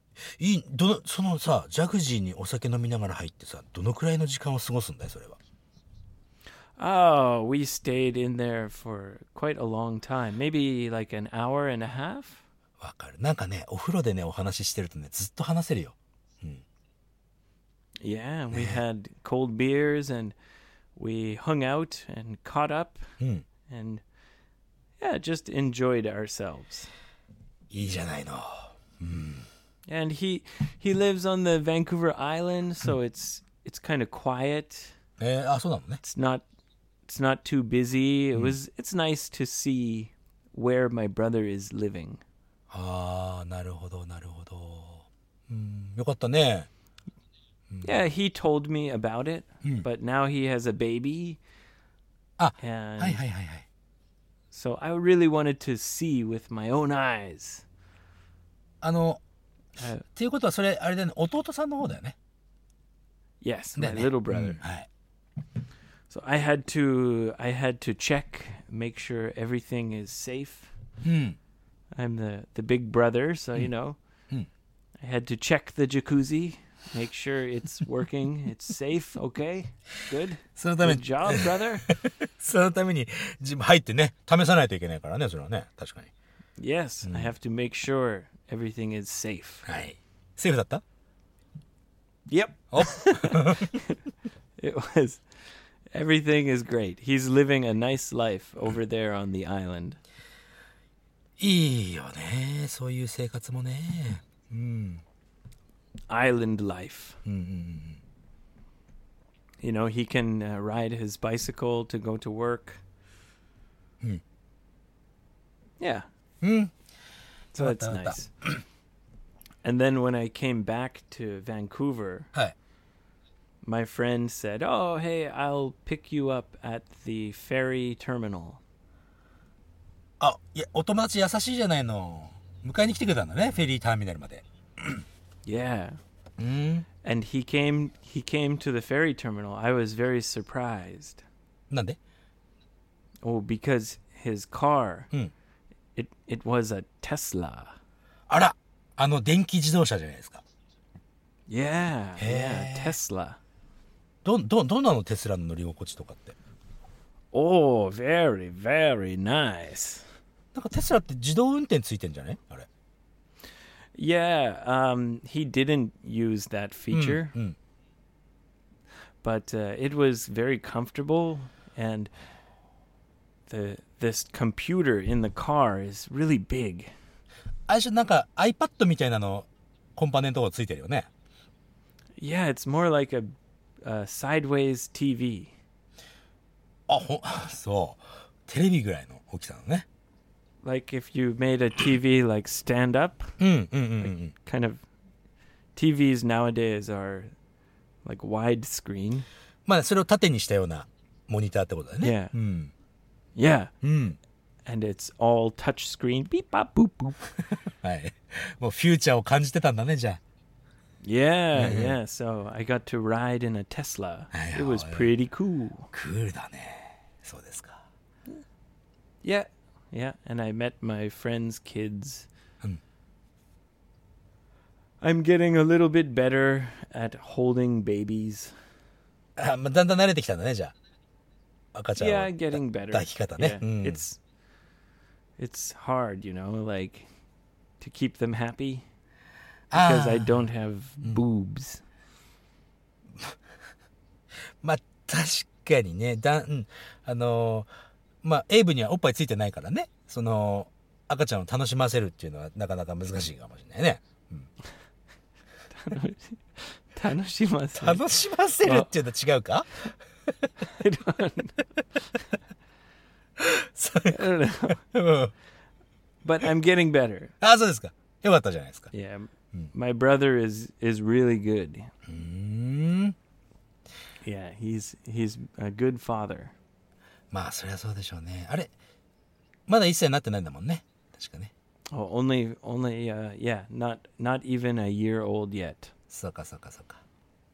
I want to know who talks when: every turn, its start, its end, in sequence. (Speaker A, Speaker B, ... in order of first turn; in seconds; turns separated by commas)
Speaker A: 0.2-5.4, Speaker B: 6.8-12.4, Speaker A: 12.8-16.6, Speaker B: 18.0-20.3, Speaker A: 18.5-18.8, Speaker B: 20.9-23.1, Speaker A: 23.2-23.4, Speaker B: 23.7-24.0, Speaker B: 25.0-26.9, Speaker A: 27.7-29.5, Speaker B: 29.9-34.9, Speaker A: 35.2-36.0, Speaker B: 36.0-36.4, Speaker B: 37.1-42.2, Speaker A: 42.7-46.7, Speaker B: 47.8-51.4, Speaker A: 52.4-53.6, Speaker B: 52.6-53.2, Speaker B: 54.5-57.6, Speaker A: 58.8-59.2, Speaker B: 59.8-60.0, Speaker A: 60.0-62.1, Speaker B: 63.4-64.6, Speaker A: 63.8-64.9, Speaker B: 66.1-70.7, Speaker A: 71.0-71.4, Speaker B: 71.9-74.0, Speaker B: 75.0-81.9, Speaker A: 80.5-86.1, Speaker B: 86.6-89.7, Speaker A: 87.0-87.3, Speaker A: 89.7-90.8, Speaker B: 92.3-94.0, Speaker A: 92.7-93.7, Speaker B: 94.6-95.2, Speaker B: 95.9-100.0, Speaker A: 101.4-105.0, Speaker B: 106.1-107.2, Speaker A: 107.2-108.0, Speaker B: 109.6-112.8, Speaker B: 115.8-116.0, Speaker A: 116.4-116.7, Speaker A: 117.5-118.6, Speaker B: 117.5-118.3, Speaker B: 119.6-122.3, Speaker B: 123.6-128.6, Speaker A: 130.2-135.0, Speaker B: 135.4-136.0, Speaker A: 136.4-136.8, Speaker B: 137.0-141.2, Speaker A: 141.7-142.0, Speaker B: 143.2-145.1, Speaker B: 145.9-147.8, Speaker A: 148.3-150.4, Speaker B: 151.5-153.4, Speaker A: 152.2-153.0, Speaker A: 154.2-156.3, Speaker B: 157.3-160.0, Speaker A: 160.5-162.7, Speaker B: 163.9-167.3, Speaker A: 166.9-167.6, Speaker B: 169.2-172.1, Speaker B: 173.5-176.9, Speaker A: 177.7-181.1, Speaker B: 182.2-185.5, Speaker A: 186.9-189.8, Speaker B: 190.6-193.3, Speaker A: 193.4-194.3, Speaker B: 194.0-194.8, Speaker B: 195.7-197.3, Speaker B: 198.0-199.2, Speaker A: 199.7-202.7, Speaker B: 202.0-202.3, Speaker B: 203.3-203.7, Speaker A: 203.8-204.2, Speaker B: 204.7-207.2, Speaker A: 207.7-210.2, Speaker B: 211.0-215.9, Speaker A: 211.5-211.9, Speaker A: 214.3-215.1, Speaker A: 215.9-217.8, Speaker B: 219.2-222.3, Speaker B: 225.0-228.5, Speaker A: 229.4-230.7, Speaker A: 231.7-234.0, Speaker B: 232.0-234.2, Speaker B: 235.4-237.1, Speaker B: 237.8-238.8, Speaker A: 239.7-240.4, Speaker B: 239.7-241.8, Speaker A: 244.6-247.7, Speaker A: 248.2-254.5, Speaker B: 255.7-258.0, Speaker A: 257.7-259.9, Speaker B: 258.6-258.9, Speaker B: 260.6-261.6, Speaker A: 263.4-265.3, Speaker B: 264.1-264.8, Speaker B: 266.2-267.3, Speaker A: 267.4-268.9, Speaker B: 268.9-271.9, Speaker A: 272.1-273.1, Speaker B: 274.2-276.5, Speaker A: 277.3-278.7, Speaker A: 279.7-281.5, Speaker B: 281.9-285.9, Speaker A: 286.1-287.0